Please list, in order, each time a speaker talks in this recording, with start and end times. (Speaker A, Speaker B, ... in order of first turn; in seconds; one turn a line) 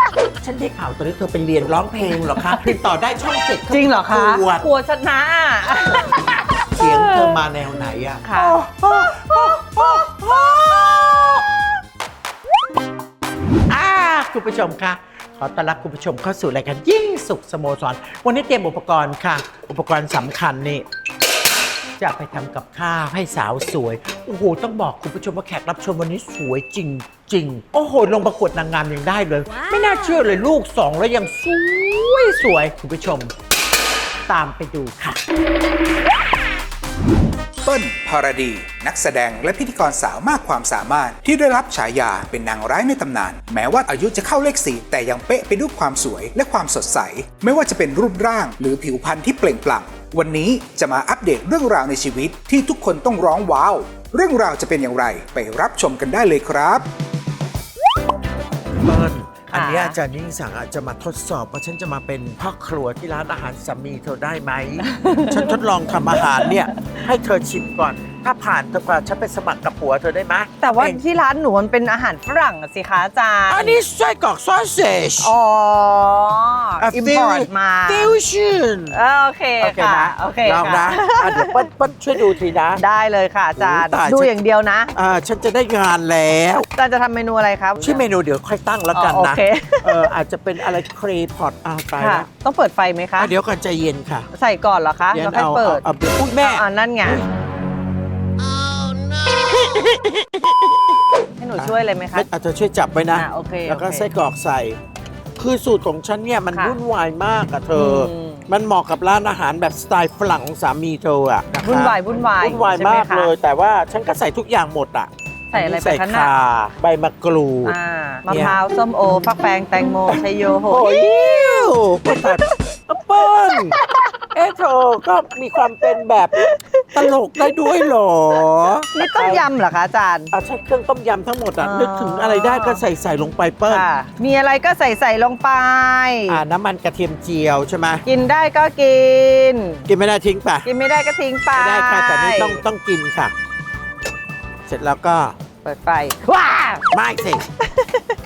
Speaker A: 0.4-4.7
Speaker B: 2.4-2.7
Speaker B: 3.7-7.4
Speaker A: 5.9-11.4
Speaker B: 8.2-8.6
Speaker A: 13.7-20.8
Speaker A: 22.0-33.3
Speaker A: 34.3-35.2
Speaker C: 37.6-56.9
Speaker A: 58.8-71.0
Speaker B: 59.5-60.0
Speaker B: 64.9-66.5
Speaker B: 70.6-73.8
Speaker A: 73.5-75.3
Speaker B: 75.2-78.2
Speaker A: 76.8-79.0
Speaker B: 78.9-81.6
Speaker A: 79.6-82.8
Speaker B: 82.2-84.9
Speaker A: 83.5-84.3
Speaker A: 84.9-86.7
Speaker B: 86.7-88.0
Speaker A: 87.8-92.3
Speaker B: 88.9-90.1
Speaker B: 92.0-93.3
Speaker A: 93.2-94.3
Speaker B: 94.3-97.2
Speaker A: 95.1-97.2
Speaker A: 99.2-100.8
Speaker B: 101.4-102.3
Speaker A: 101.6-104.8
Speaker B: 103.2-104.1
Speaker A: 105.4-117.8
Speaker B: 107.7-108.5
Speaker B: 111.6-113.3
Speaker B: 115.5-116.3
Speaker B: 117.6-121.0
Speaker A: 118.3-118.6
Speaker A: 120.1-123.8
Speaker A: 124.3-126.4
Speaker B: 126.3-127.1
Speaker A: 126.9-129.5
Speaker B: 128.9-130.3
Speaker A: 130.3-133.8
Speaker B: 131.6-132.8
Speaker B: 133.7-136.4
Speaker A: 136.3-138.0
Speaker B: 138.0-139.8
Speaker A: 139.9-140.7
Speaker B: 140.6-142.6
Speaker A: 141.5-143.3
Speaker A: 144.7-145.4
Speaker B: 145.6-146.8
Speaker A: 146.9-147.4
Speaker B: 147.7-148.1